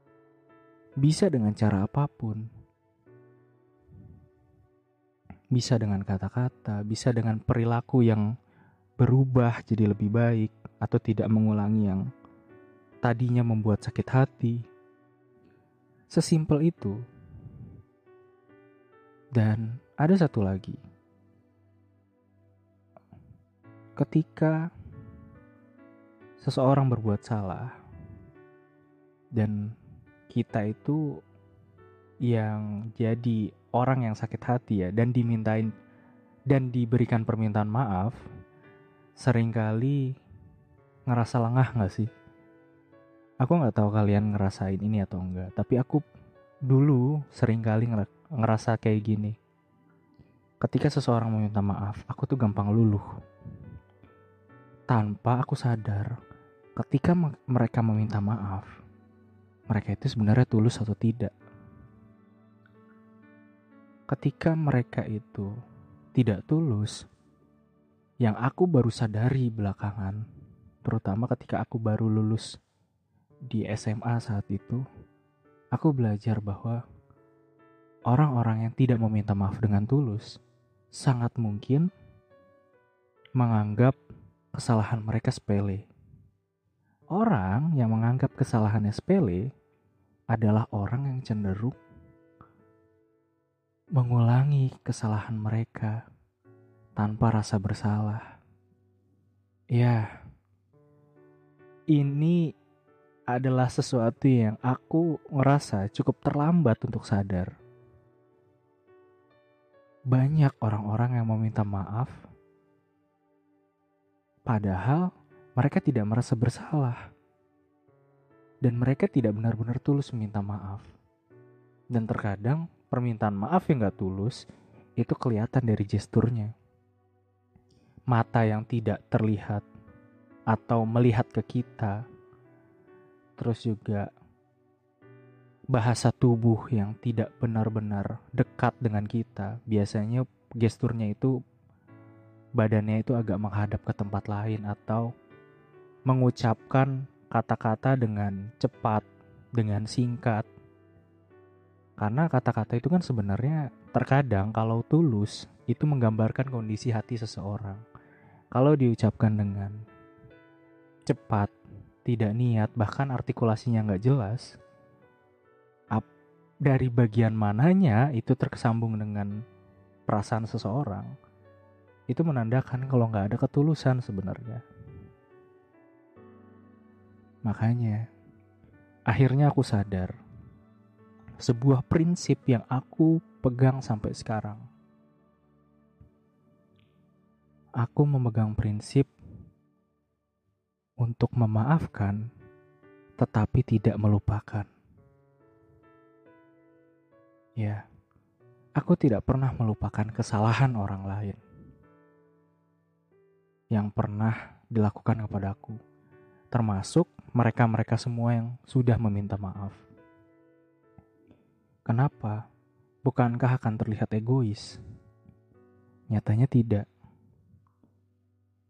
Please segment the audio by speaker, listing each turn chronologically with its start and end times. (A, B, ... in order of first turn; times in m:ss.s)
0:01.0-0:02.4 A
0:05.5-0:08.2 A
0:09.0-0:12.0 A
0:13.0-0:14.6 A
0:16.1-0:17.0 A
0:19.4-0:20.8 A
0:24.0-0:24.6 A
0:26.4-0:27.8 A
0:29.3-0:29.7 A
0:30.3-0:31.0 A
0:32.3-0:35.7 A
0:36.5-0:38.2 A
0:39.2-0:40.1 A
0:41.1-0:42.1 A
0:43.4-0:46.0 A
0:46.7-0:49.4 A
0:50.6-0:53.1 A
0:54.9-0:56.1 A
0:56.8-0:58.7 A
0:59.7-1:01.3 A
1:04.1-1:05.5 A
1:06.1-1:07.0 A
1:08.2-1:10.2 A
1:10.8-1:12.5 A
1:13.5-1:14.8 A
1:15.7-1:16.8 A
1:18.1-1:20.3 A
1:21.0-1:21.9 A
1:23.4-1:24.0 A
1:24.5-1:25.8 A
1:27.1-1:29.4 A
1:30.3-1:31.8 A
1:34.0-1:36.0 A
1:37.0-1:38.2 A
1:39.7-1:40.0 A
1:41.9-1:42.4 A
1:43.3-1:47.5 A
1:50.1-1:52.2 A
1:54.4-1:57.0 A
1:58.6-2:00.8 A
2:01.9-2:04.4 A
2:05.0-2:06.5 A
2:08.1-2:09.6 A
2:10.5-2:12.0 A
2:13.4-2:14.1 A
2:15.7-2:21.3 A
2:22.6-2:25.1 A
2:26.1-2:29.0 A
2:29.6-2:30.5 A
2:32.0-2:37.8 A
2:38.5-2:39.8 A
2:41.1-2:41.5 A
2:42.0-2:44.5 A
2:46.6-2:49.3 A
2:50.1-2:51.1 A
2:52.1-2:54.6 A
2:57.4-2:58.0 A
2:59.1-3:00.1 A
3:01.4-3:04.6 A
3:07.8-3:09.1 A
3:11.0-3:12.2 A
3:13.2-3:14.7 A
3:17.6-3:17.8 A
3:18.8-3:21.4 A
3:23.7-3:25.8 A
3:26.5-3:29.8 A
3:31.9-3:32.4 A
3:33.0-3:34.8 A
3:36.1-3:36.8 A